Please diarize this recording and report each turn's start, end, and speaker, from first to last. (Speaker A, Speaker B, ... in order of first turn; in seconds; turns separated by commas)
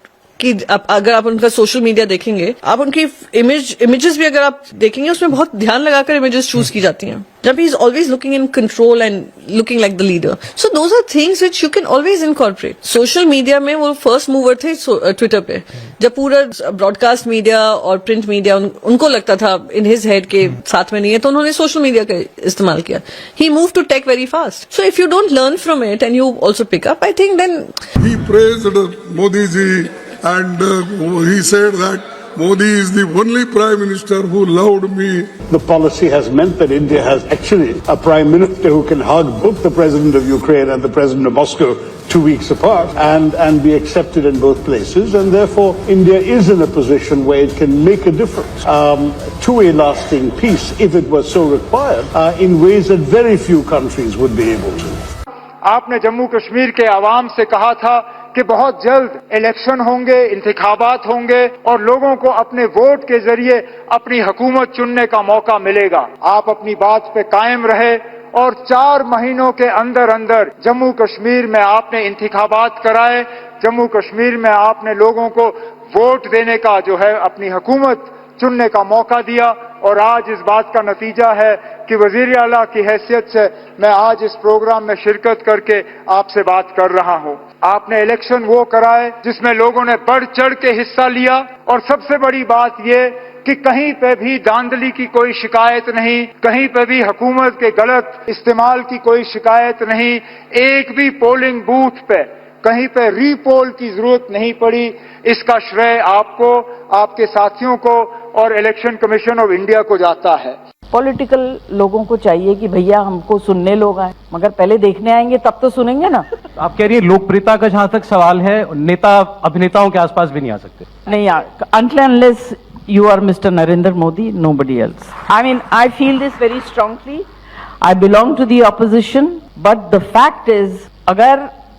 Speaker A: 0.4-27.7, Speaker B: 28.0-35.3, Speaker C: 35.5-55.0, Speaker D: 55.6-110.5, Speaker E: 110.9-116.2, Speaker F: 116.6-120.9, Speaker E: 121.0-127.2, Speaker E: 127.8-131.5